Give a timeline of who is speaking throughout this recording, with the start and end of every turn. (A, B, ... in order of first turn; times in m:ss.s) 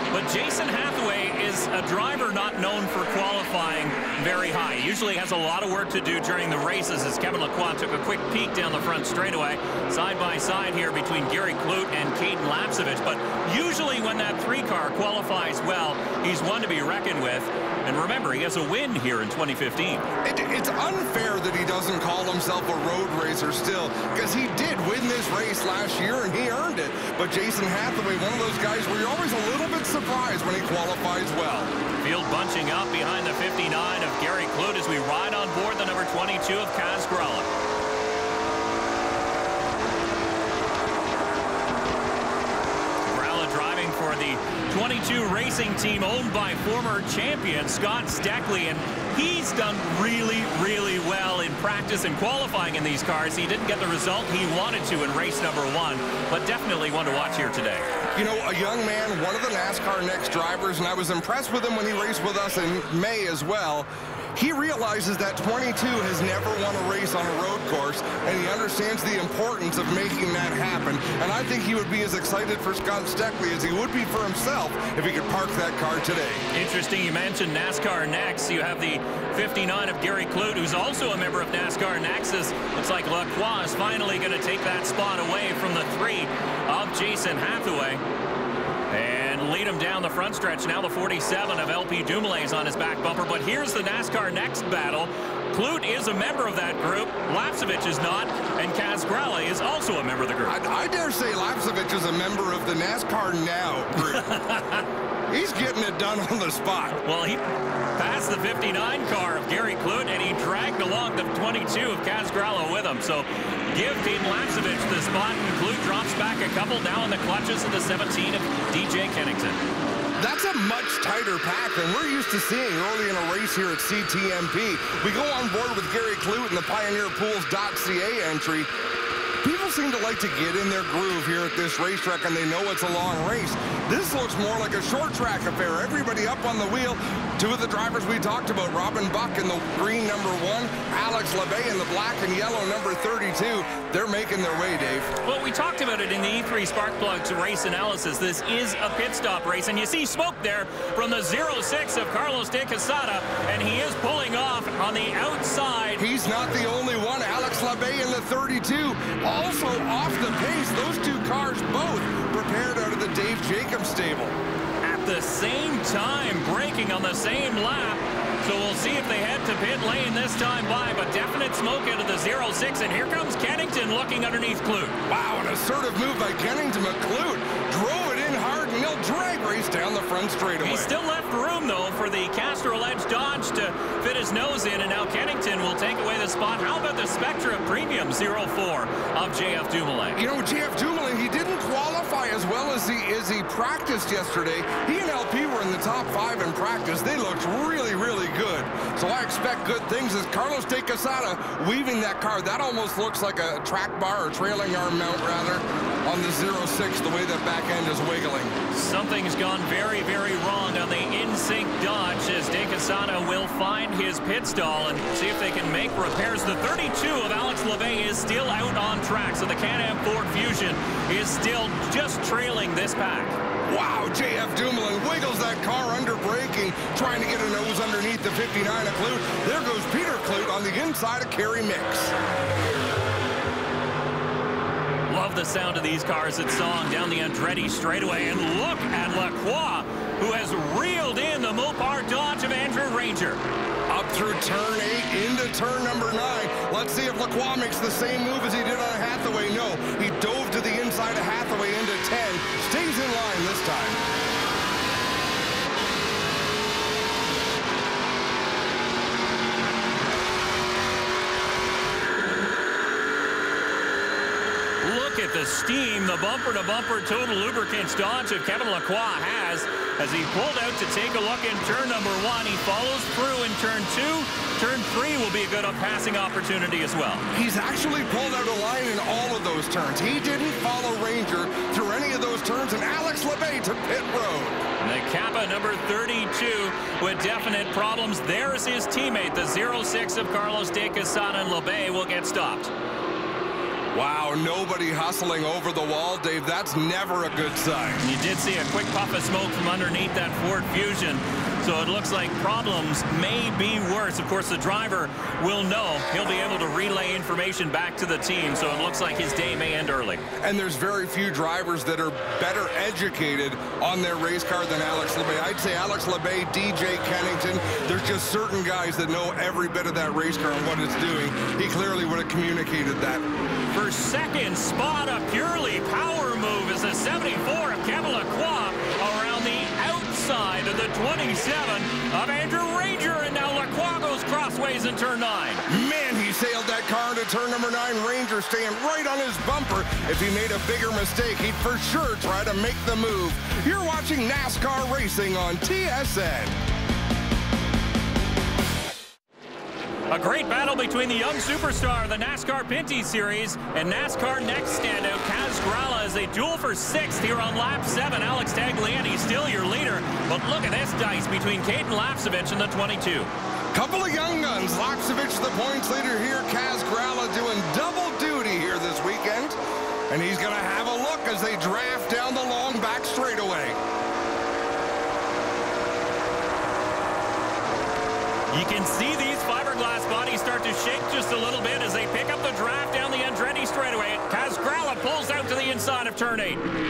0:00.1-0:20.0 A
0:20.2-0:31.7 B
0:32.0-0:37.5 A
0:43.0-0:57.9 A
0:58.2-1:16.4 B
1:16.5-1:28.0 A
1:28.9-1:40.6 A
1:40.4-1:44.3 B
1:44.0-1:44.9 A
1:45.3-1:47.0 B
1:47.0-1:47.4 A
1:48.0-1:59.6 A
2:00.2-2:08.7 B
2:09.4-2:25.1 B
2:25.2-2:36.0 A
2:36.0-2:44.4 B
2:44.8-2:55.0 A
2:55.1-3:00.9 B
3:00.6-3:10.2 A
3:10.2-3:28.6 B
3:28.7-3:43.4 A
3:43.7-3:52.2 B
3:55.1-4:03.4 A
4:03.9-4:14.0 B
4:24.8-4:37.3 A
4:37.3-4:44.6 B
4:44.8-4:52.7 A
4:53.9-4:58.0 B
4:58.0-5:10.2 A
5:10.4-5:23.3 B
5:23.7-5:35.6 A
5:35.7-5:46.6 B
5:50.1-6:03.3 A
6:03.7-6:09.6 B
6:10.1-6:13.8 B
6:18.5-6:26.6 A